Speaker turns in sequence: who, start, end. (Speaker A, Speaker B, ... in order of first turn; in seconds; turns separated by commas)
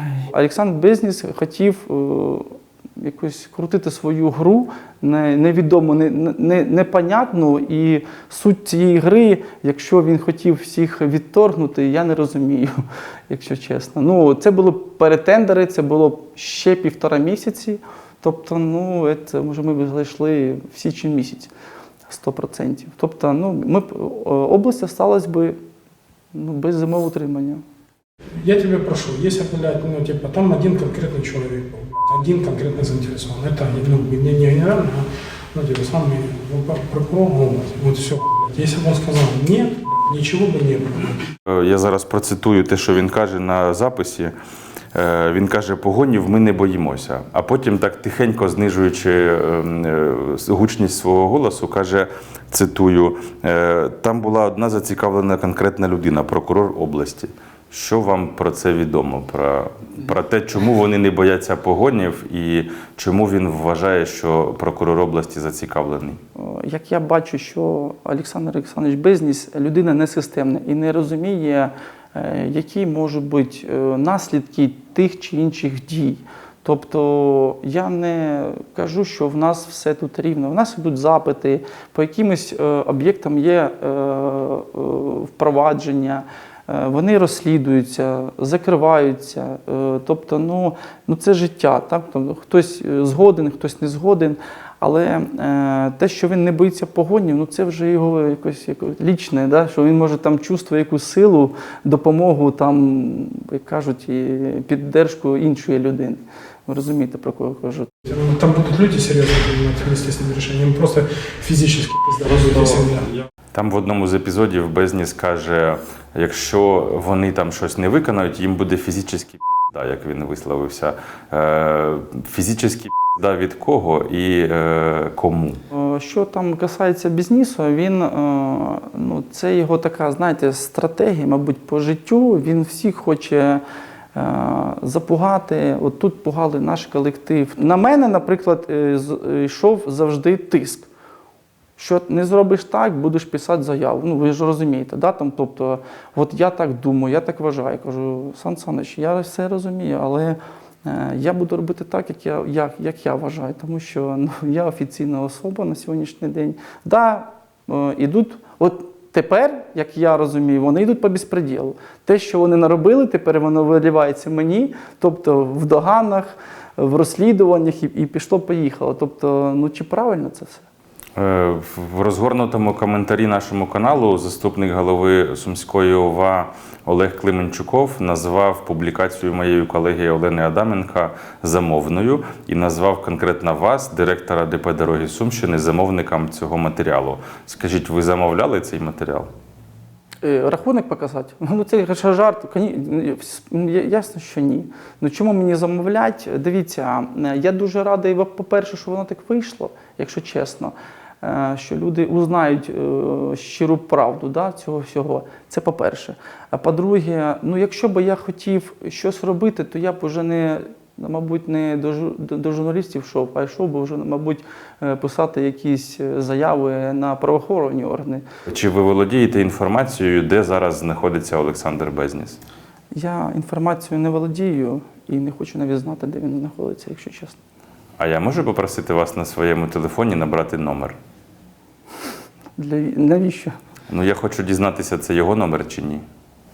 Speaker A: 0.3-12.7, Speaker A: 13.3-21.5, Speaker A: 22.1-25.6, Speaker A: 26.3-27.6, Speaker B: 28.4-41.2, Speaker C: 41.5-44.3, Speaker C: 44.9-66.2, Speaker A: 66.4-107.9, Speaker B: 108.0-113.1, Speaker C: 113.5-125.6, Speaker A: 125.7-133.6, Speaker A: 134.2-140.9, Speaker A: 141.8-170.7, Speaker C: 171.2-189.3, Speaker A: 190.2-218.2, Speaker C: 218.5-222.4, Speaker A: 222.9-227.4, Speaker C: 228.0-231.0, Speaker A: 232.6-233.6, Speaker C: 233.9-236.0